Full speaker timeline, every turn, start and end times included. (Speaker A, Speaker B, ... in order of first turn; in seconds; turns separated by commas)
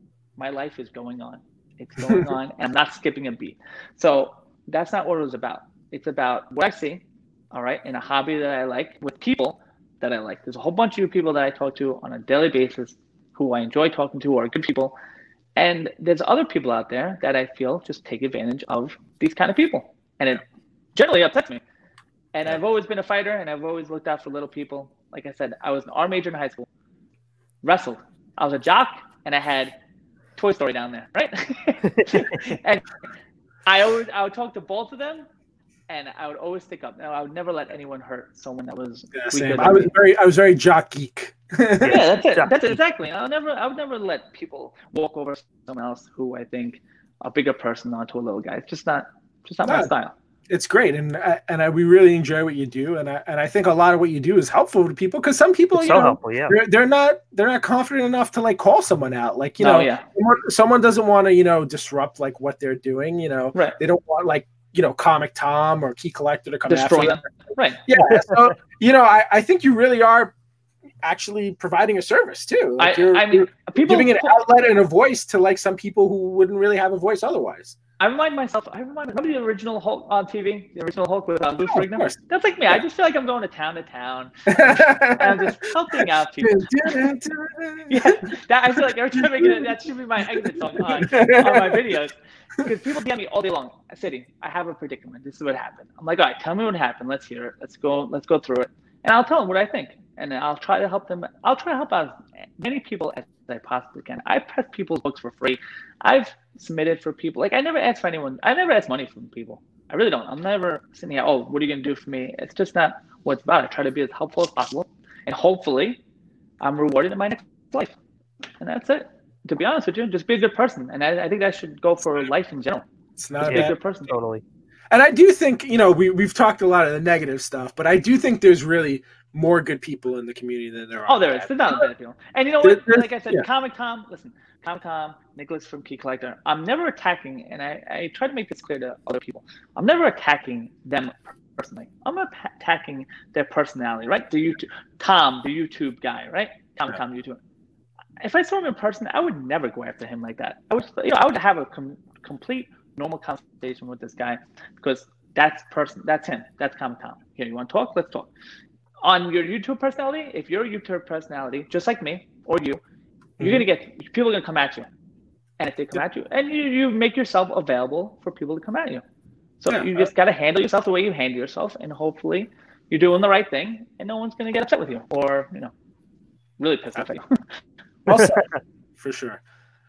Speaker A: 0.4-14.9, Speaker A: 15.6-20.4, Speaker A: 20.9-21.6, Speaker A: 22.3-26.7, Speaker A: 27.6-29.7, Speaker A: 30.4-32.9, Speaker A: 33.7-35.3, Speaker A: 35.9-39.9, Speaker B: 39.2-42.0, Speaker C: 41.8-42.8, Speaker A: 41.8-50.1, Speaker B: 49.7-49.9, Speaker B: 50.5-67.3, Speaker C: 55.7-56.6, Speaker A: 59.6-60.1, Speaker A: 66.7-67.8, Speaker B: 67.9-70.3, Speaker B: 71.0-77.8, Speaker A: 72.8-74.4, Speaker A: 78.0-87.0, Speaker B: 81.6-82.2, Speaker B: 84.5-85.6, Speaker B: 86.4-88.2, Speaker A: 87.9-116.0, Speaker B: 89.2-89.7, Speaker B: 90.4-92.0, Speaker A: 116.6-118.0, Speaker A: 118.6-122.8, Speaker B: 123.2-123.8, Speaker A: 123.4-124.1, Speaker C: 123.4-124.4, Speaker B: 124.9-131.9, Speaker A: 131.1-147.4, Speaker B: 132.6-133.4, Speaker A: 148.2-158.3, Speaker A: 159.0-162.8, Speaker B: 163.4-163.7, Speaker A: 163.4-164.9, Speaker A: 165.6-169.0, Speaker A: 169.6-175.7, Speaker B: 169.7-170.1, Speaker A: 176.6-177.4, Speaker B: 178.1-179.4